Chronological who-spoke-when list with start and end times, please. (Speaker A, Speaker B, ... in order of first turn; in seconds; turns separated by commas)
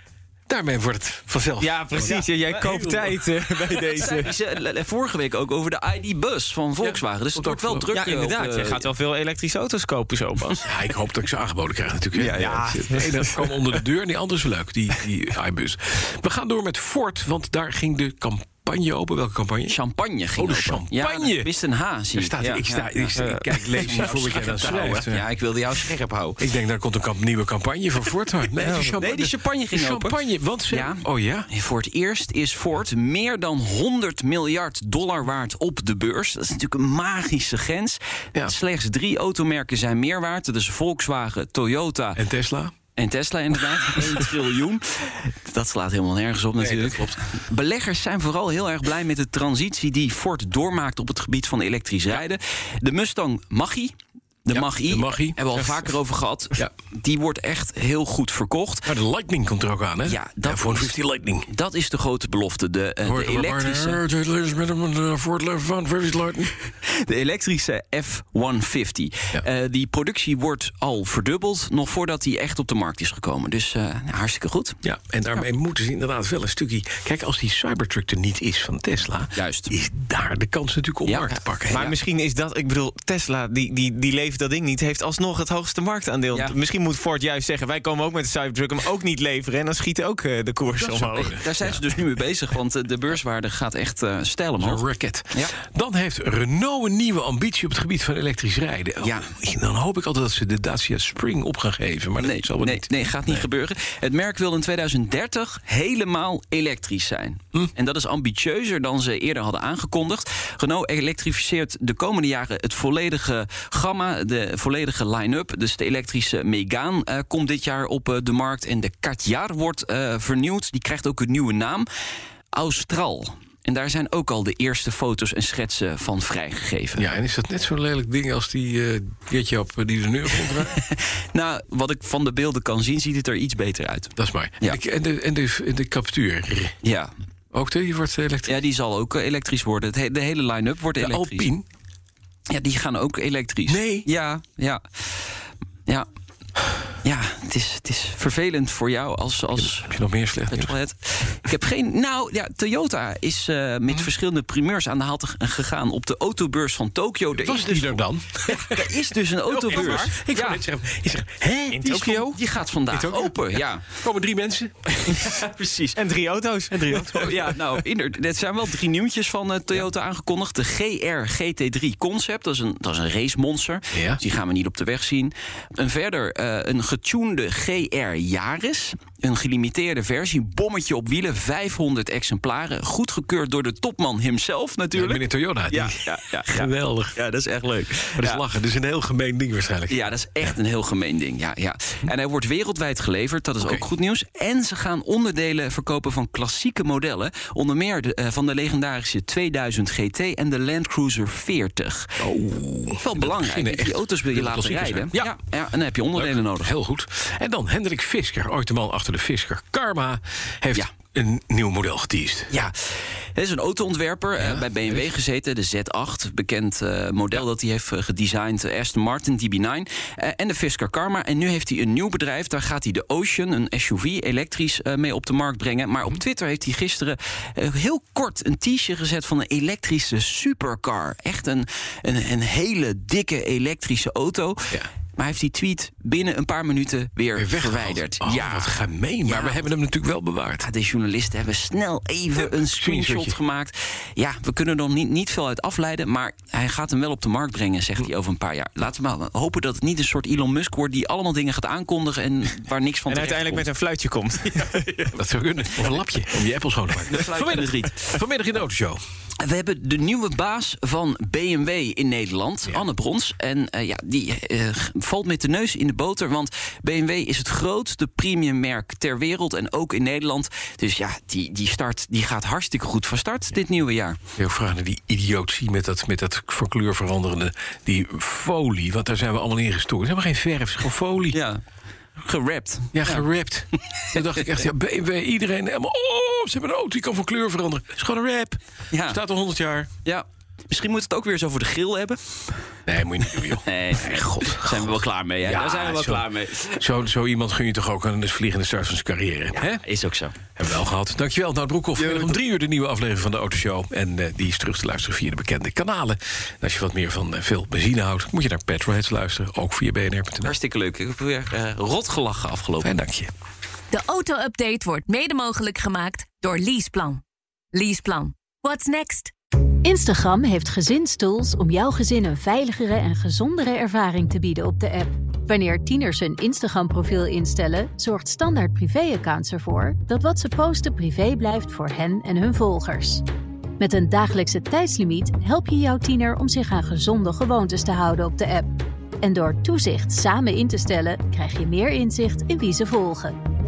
Speaker A: 0.5-3.1, Speaker B: 1.6-4.3, Speaker C: 3.8-8.9, Speaker A: 6.8-7.9, Speaker B: 7.9-10.7, Speaker A: 10.6-19.8, Speaker C: 12.1-13.1, Speaker B: 12.4-13.5, Speaker C: 19.7-26.5, Speaker A: 20.3-21.5, Speaker A: 22.1-25.3, Speaker B: 23.2-24.0, Speaker A: 26.4-31.5, Speaker B: 28.6-28.9, Speaker C: 28.9-42.2, Speaker A: 42.2-42.7, Speaker C: 43.0-53.9, Speaker A: 46.6-47.2, Speaker C: 54.5-59.0, Speaker A: 54.5-55.7, Speaker A: 58.9-61.5, Speaker C: 60.1-64.0, Speaker A: 63.0-66.5, Speaker C: 66.8-74.8, Speaker A: 74.8-81.8, Speaker C: 79.3-79.7, Speaker C: 81.1-82.0, Speaker B: 81.7-91.4, Speaker C: 86.3-86.6, Speaker A: 90.7-91.7, Speaker C: 91.2-95.6, Speaker A: 94.6-103.5, Speaker C: 99.0-99.3, Speaker C: 102.2-121.9, Speaker C: 122.5-127.1, Speaker A: 127.0-130.8, Speaker C: 130.5-134.8, Speaker A: 134.2-136.8, Speaker C: 136.8-137.1, Speaker A: 137.5-138.6, Speaker C: 138.5-141.5, Speaker A: 141.0-141.7, Speaker C: 142.5-145.3, Speaker A: 143.7-144.1, Speaker C: 147.0-149.9, Speaker A: 149.5-150.7, Speaker C: 150.5-160.6, Speaker A: 157.3-162.0, Speaker B: 159.7-160.1, Speaker B: 161.8-162.4, Speaker C: 161.8-163.9, Speaker A: 162.9-165.4, Speaker C: 165.1-166.0, Speaker B: 166.0-167.3, Speaker A: 166.7-167.7, Speaker C: 167.1-188.4, Speaker A: 173.9-174.2, Speaker A: 184.9-187.2, Speaker A: 188.2-190.6, Speaker C: 189.9-202.2, Speaker A: 202.2-205.3, Speaker C: 203.0-206.7, Speaker A: 206.1-212.6, Speaker C: 212.5-239.7, Speaker A: 214.4-215.1, Speaker A: 237.4-240.7, Speaker C: 240.6-253.7, Speaker A: 242.4-243.4, Speaker B: 253.1-255.1, Speaker A: 255.1-259.0, Speaker C: 257.1-258.1, Speaker C: 259.4-274.2, Speaker A: 274.4-281.4, Speaker C: 281.3-281.6, Speaker C: 282.2-283.3, Speaker A: 282.9-289.9, Speaker C: 288.9-289.2, Speaker C: 290.1-292.5, Speaker A: 292.9-299.8, Speaker C: 293.5-296.8, Speaker C: 299.5-300.4, Speaker A: 300.6-310.6, Speaker C: 302.0-302.4, Speaker C: 310.4-312.9, Speaker A: 312.8-313.3, Speaker D: 313.9-319.3, Speaker E: 319.8-333.2, Speaker E: 333.8-338.7, Speaker E: 339.2-343.4